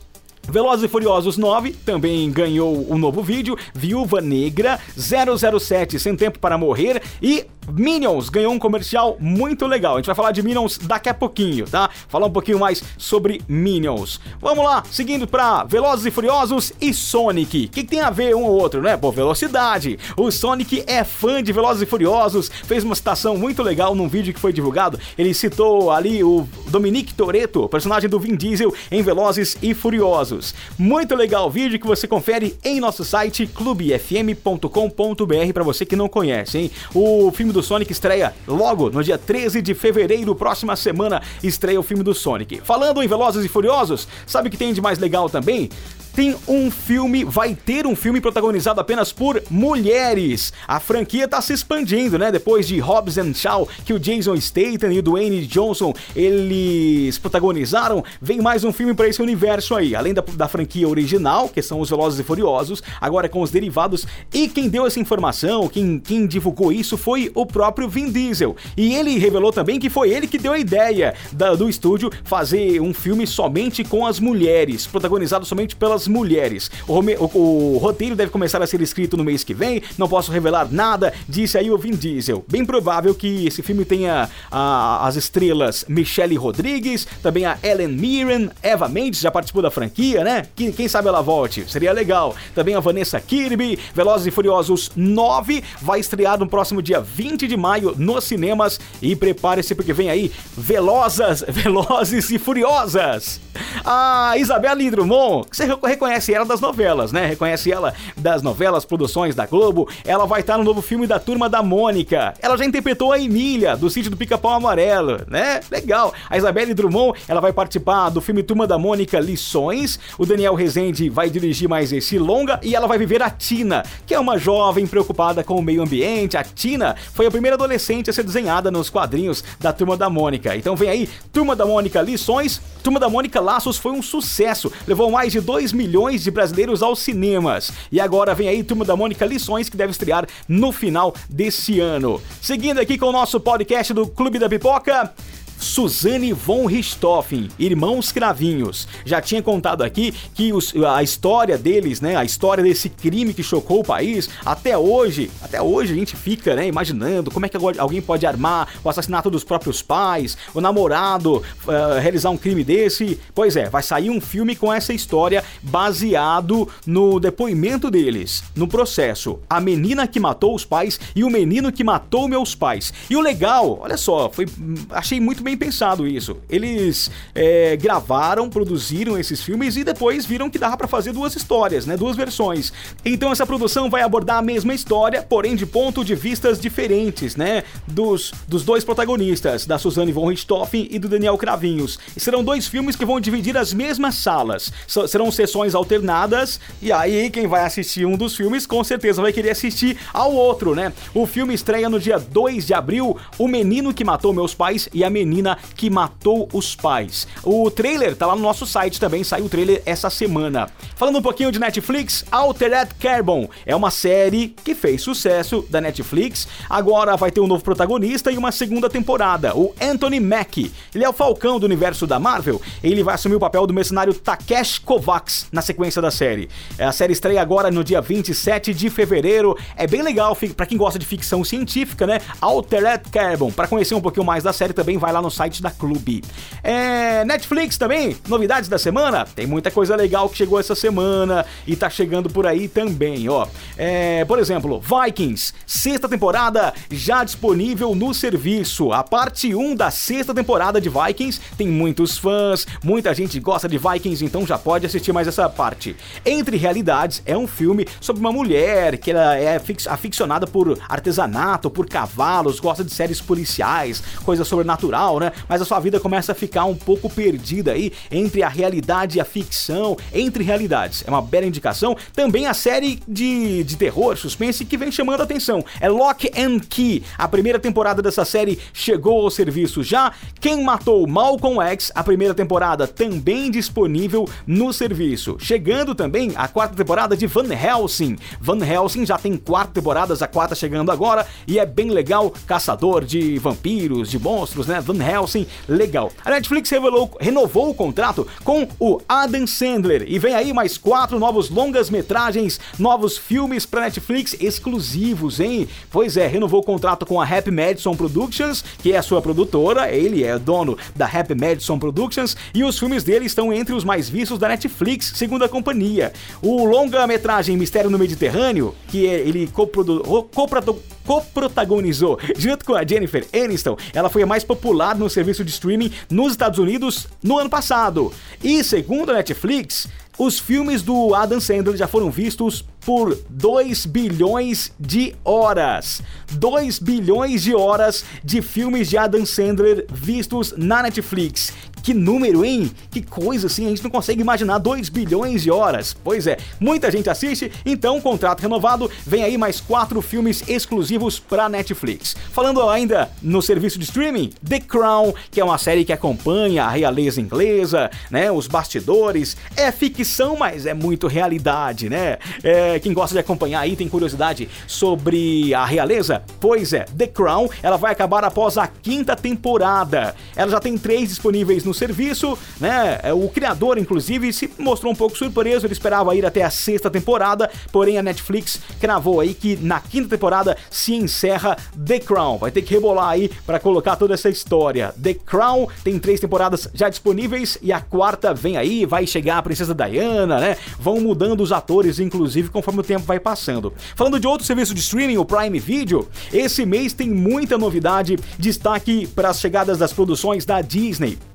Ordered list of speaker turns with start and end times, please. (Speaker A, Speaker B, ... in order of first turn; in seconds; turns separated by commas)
Speaker A: 0.5-401.2